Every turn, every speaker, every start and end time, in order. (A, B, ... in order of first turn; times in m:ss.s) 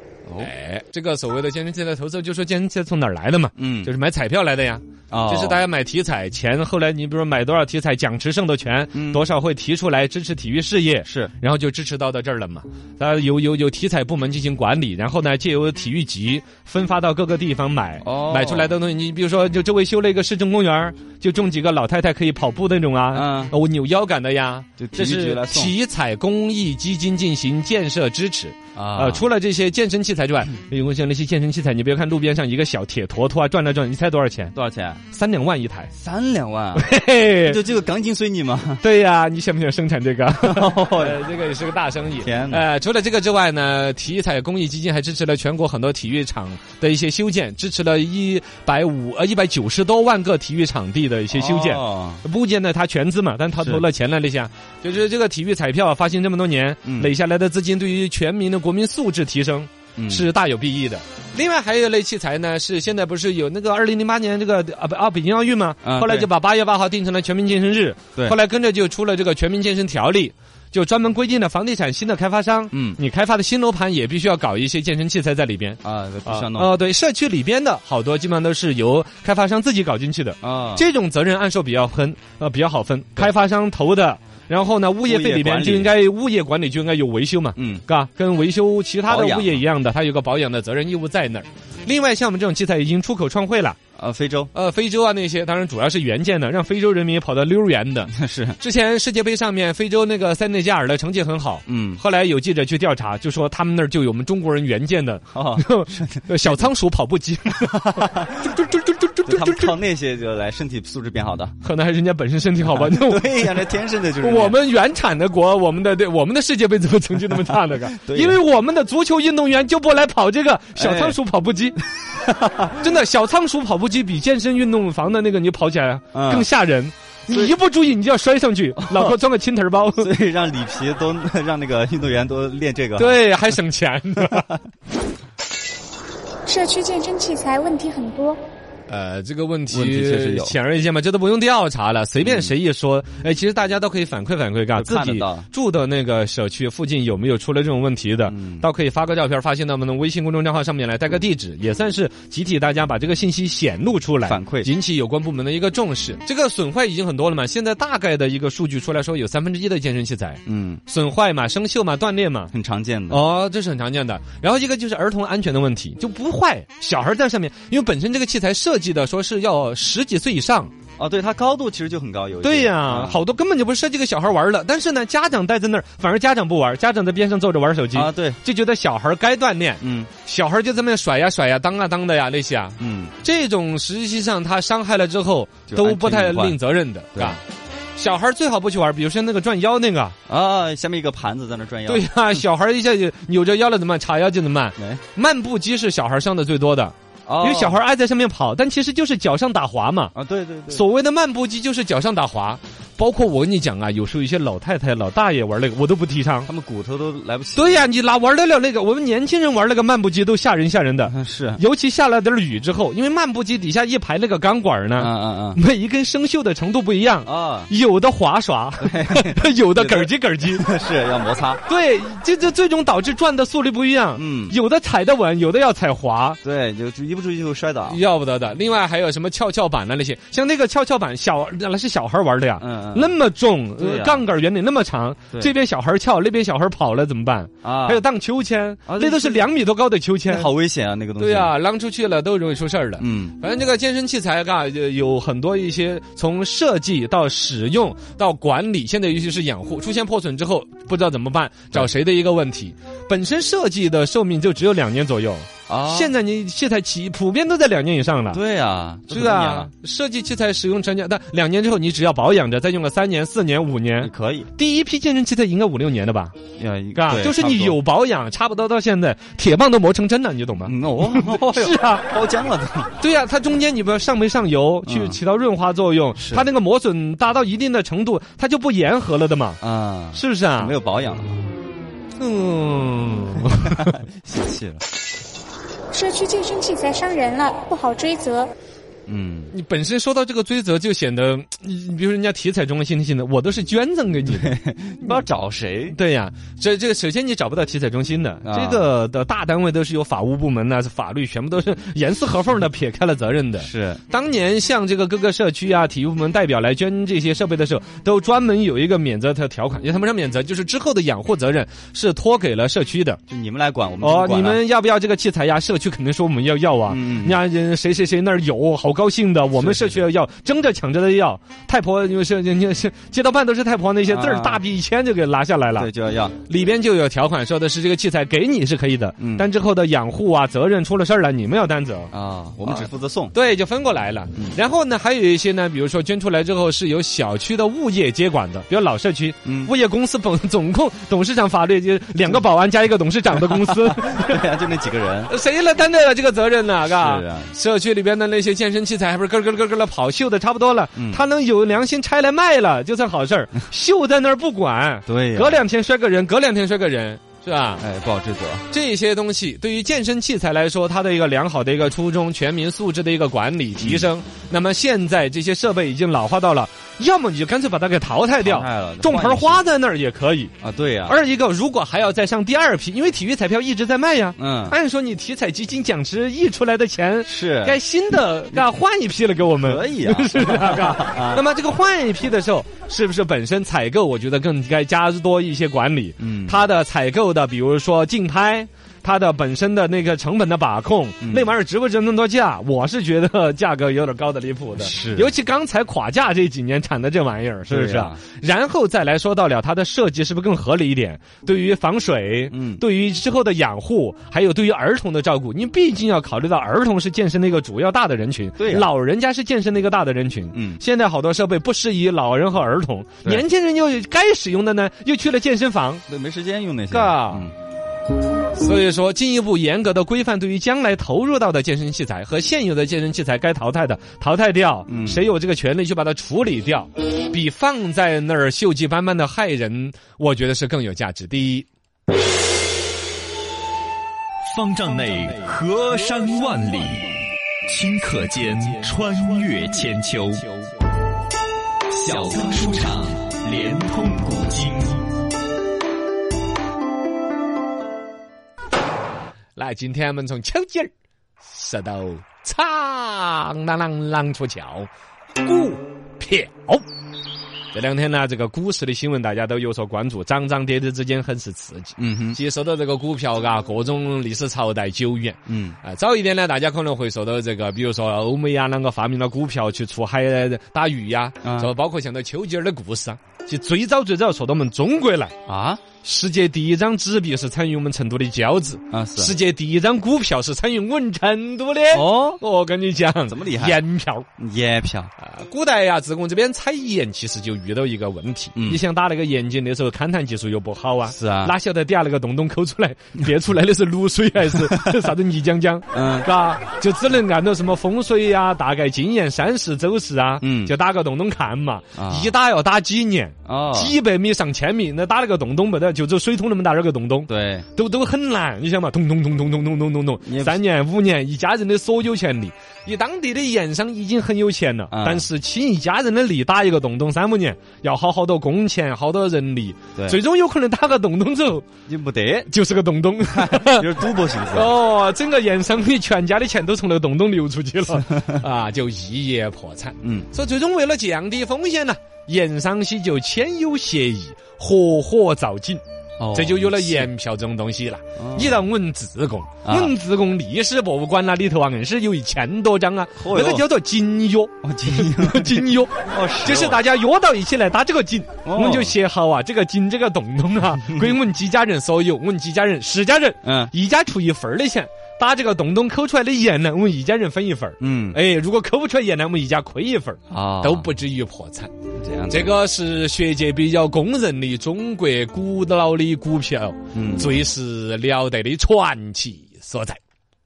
0:00.3-0:00.5 A
0:00.4-0:34.5 B
0:03.6-0:03.9 A
0:05.1-0:05.6 A
0:08.9-0:09.3 A
0:11.0-0:11.3 A
0:18.0-0:18.8 A
0:23.1-0:23.6 A
0:24.8-0:25.8 A
0:28.8-0:29.3 A
0:34.5-0:35.0 A
0:35.1-0:35.9 B
0:35.9-0:38.8 A
0:36.8-0:37.6 B
0:38.8-1:33.8 B
0:40.3-0:41.2 A
0:42.2-0:42.6 A
0:51.3-0:52.2 A
0:53.6-0:53.8 A
0:56.8-0:57.1 A
1:00.0-1:00.3 A
1:05.8-1:06.3 A
1:12.7-1:13.0 A
1:15.8-1:16.8 A
1:20.4-1:20.8 A
1:25.1-1:26.0 A
1:27.6-1:27.8 A
1:29.1-1:29.6 A
1:34.0-1:34.5 A
1:34.5-1:49.8 B
1:38.1-1:38.6 A
1:41.7-1:42.0 A
1:45.3-1:46.7 A
1:47.6-1:48.6 A
1:49.3-1:51.5 A
1:51.6-1:53.6 B
1:52.6-1:54.6 A
1:54.2-2:01.8 B
1:57.5-1:58.4 A
2:00.8-2:01.2 A
2:02.2-2:02.8 A
2:02.8-2:10.1 B
2:06.1-2:06.5 A
2:08.8-2:09.2 A
2:10.0-2:13.4 A
2:13.0-2:14.5 B
2:16.5-2:18.4 C
2:18.9-2:42.5 B
2:19.7-2:20.6 A
2:22.2-2:22.5 A
2:24.8-2:25.5 A
2:28.3-2:28.7 A
2:34.2-2:34.7 A
2:40.5-2:40.8 A
2:42.5-2:43.2 A
2:43.1-2:50.7 B
2:51.0-2:53.2 A
2:52.4-3:07.4 B
2:57.9-2:58.4 A
2:59.8-3:00.1 A
3:02.8-3:03.2 A
3:05.7-3:06.6 A
3:08.0-3:10.2 B
3:10.3-3:12.4 A
3:11.9-3:20.1 B
3:14.8-3:15.0 A
3:17.3-3:17.8 A
3:20.1-3:20.8 A
3:20.7-3:26.5 B
3:26.5-3:27.9 A
3:27.6-3:40.7 B
3:31.1-3:31.6 A
3:35.0-3:35.6 A
3:37.2-3:37.7 A
3:38.8-3:41.6 A
3:41.7-3:46.4 B
3:44.2-3:44.6 A
3:46.4-3:48.0 A
3:47.9-4:00.5 B
3:52.6-3:53.2 A
3:53.8-3:54.3 A
3:57.6-3:58.0 A
3:58.9-3:59.5 A
4:00.3-4:01.5 A
4:01.2-4:18.4 B
4:03.0-4:03.4 A
4:15.7-4:16.2 A
4:18.3-4:19.7 A
4:19.1-4:26.4 B
4:24.0-4:24.5 A
4:26.6-4:27.8 A
4:26.9-4:32.1 B
4:30.7-4:32.9 A
4:33.0-4:39.6 B
4:34.8-4:35.2 A
4:36.2-4:36.5 A
4:39.6-4:41.4 A
4:40.1-4:40.8 B
4:42.2-4:44.0 B
4:43.6-4:44.8 A
4:45.9-4:48.5 C
4:49.1-4:49.5 A
4:49.5-4:55.2 B
4:54.3-4:56.0 A
4:55.9-5:13.2 B
4:58.4-4:58.9 A
5:03.6-5:04.0 A
5:13.3-5:14.6 A
5:14.0-5:25.9 B
5:16.9-5:17.4 A
5:19.5-5:20.1 A
5:24.0-5:24.6 A
5:25.8-5:26.4 A
5:26.4-5:32.1 B
5:29.2-5:29.5 A
5:32.1-5:33.4 A
5:32.7-5:44.4 B
5:39.4-5:39.7 A
5:43.3-5:45.3 A
5:45.3-5:57.8 B
5:46.8-5:47.6 A
5:51.0-5:51.2 A
5:55.1-5:55.6 A
5:57.8-5:58.6 A
5:58.7-6:10.6 B
6:03.8-6:04.1 A
6:08.4-6:09.6 A
6:10.6-6:11.2 A
6:11.1-6:56.0 B
6:14.4-6:14.8 A
6:17.3-6:17.8 A
6:19.6-6:21.4 A
6:26.2-6:26.7 A
6:31.2-6:31.5 A
6:34.8-6:35.4 A
6:37.7-6:38.2 A
6:42.5-6:42.8 A
6:48.6-6:48.9 A
6:50.5-6:50.8 A
6:56.1-6:57.6 A
6:56.9-6:57.5 B
6:58.6-7:11.7 B
7:04.9-7:05.3 A
7:14.5-7:20.5 D
7:21.9-7:25.0 D
7:29.6-7:36.8 B
7:37.7-7:55.4 B
7:42.0-7:42.4 A
7:45.5-7:45.8 A
7:51.4-7:51.7 A
7:55.5-7:55.8 A
7:56.0-8:04.3 B
7:58.9-7:59.4 A
8:01.9-8:02.4 A
8:03.3-8:03.8 A
8:04.4-8:05.1 A
8:05.2-8:41.7 B
8:08.6-8:08.8 A
8:11.1-8:11.6 A
8:15.9-8:16.3 A
8:20.4-8:20.7 A
8:22.0-8:22.4 A
8:23.4-8:24.0 A
8:27.3-8:27.7 A
8:30.2-8:30.6 A
8:34.9-8:35.3 A
8:40.0-8:40.2 A
8:41.9-8:42.5 A
8:42.5-8:43.9 B
8:43.2-8:44.8 A
8:44.5-8:55.8 B
8:48.0-8:48.4 A
8:50.0-8:50.3 A
8:56.2-8:57.1 A
8:56.3-9:21.7 B
8:58.2-8:58.6 A
8:59.6-9:00.0 A
9:03.2-9:03.7 A
9:04.6-9:06.8 A
9:08.4-9:09.0 A
9:10.9-9:11.2 A
9:13.4-9:13.7 A
9:17.8-9:18.2 A
9:20.3-9:20.9 A
9:22.0-9:22.6 A
9:22.3-9:30.0 B
9:26.9-9:27.4 A